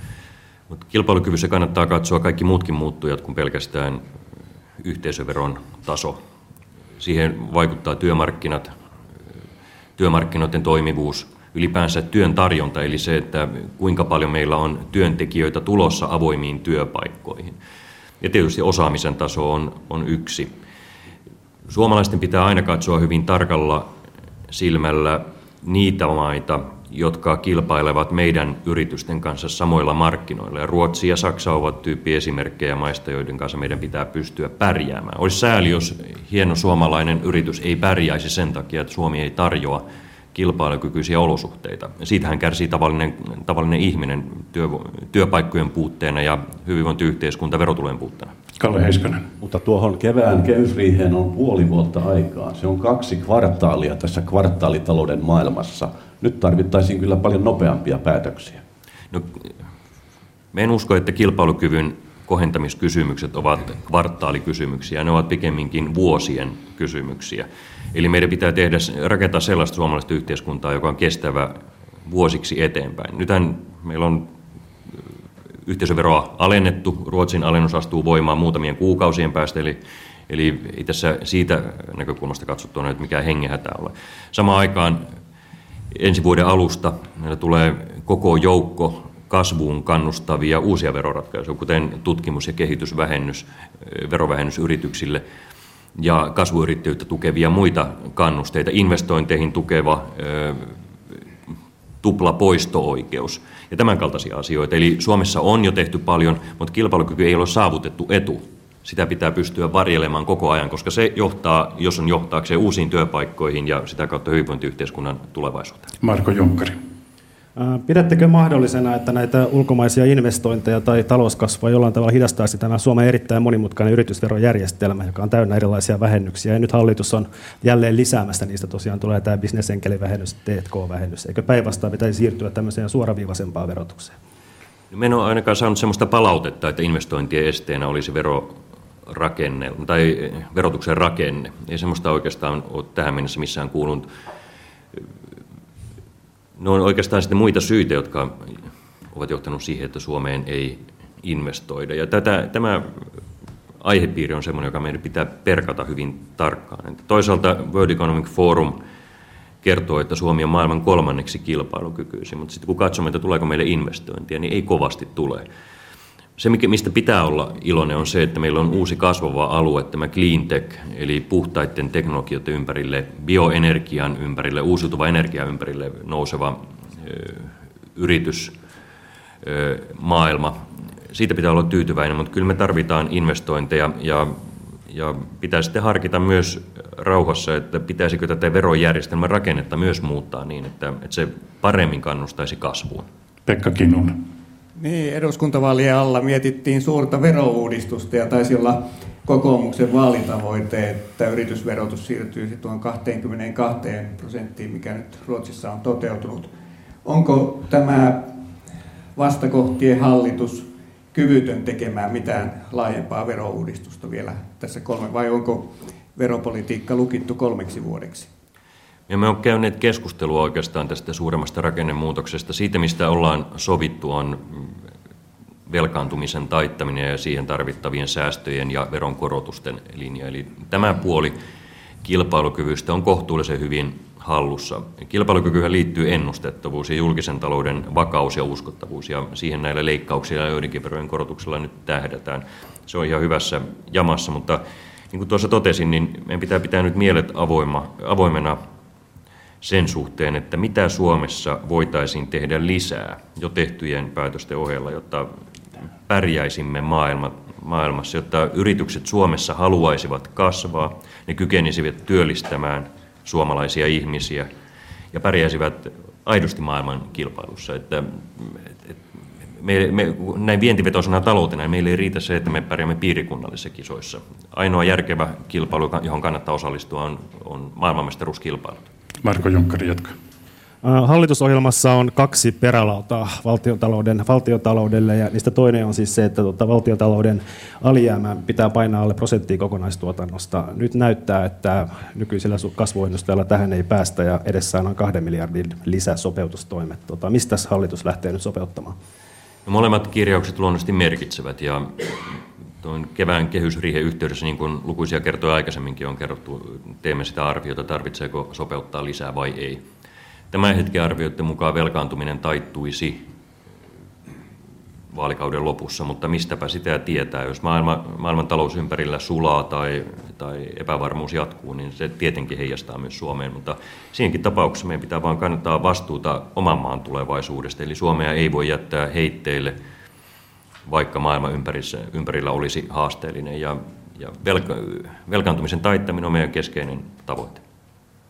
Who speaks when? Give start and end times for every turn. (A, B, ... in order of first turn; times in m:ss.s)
0:00.7-0:04.0 A
0:04.8-0:06.2 A
0:07.0-0:08.7 A
0:10.0-0:17.6 A
0:18.2-0:20.5 A
0:21.7-0:23.9 A
0:24.5-0:48.3 A
0:48.6-0:49.3 B
0:49.4-0:58.6 C
0:59.1-0:59.5 A
1:00.5-1:14.3 A
1:15.6-1:25.1 A
1:25.9-1:35.2 A
1:36.0-1:40.8 A
1:42.0-1:55.9 A
1:56.0-1:56.8 B
1:57.6-2:14.2 D
2:14.9-2:18.6 A
2:19.1-2:24.1 A
2:26.6-2:28.6 A
2:29.1-2:33.2 A
2:33.8-2:38.8 A
2:39.6-2:45.5 A
2:46.4-2:58.6 A
2:59.4-3:13.1 A
3:13.5-3:14.2 B
3:14.8-3:26.5 E
3:27.0-3:28.4 E
3:29.2-3:38.3 E
3:39.1-3:44.8 A
3:45.7-3:51.4 A
3:52.0-4:08.6 A
4:09.6-4:15.3 A
4:16.1-4:24.5 A
4:25.1-4:29.0 A
4:29.6-4:38.9 A
4:39.2-4:40.2 B
4:40.8-4:59.0 D
4:59.7-5:09.8 A
5:10.5-5:13.3 A
5:15.1-5:29.8 A
5:30.9-5:37.6 A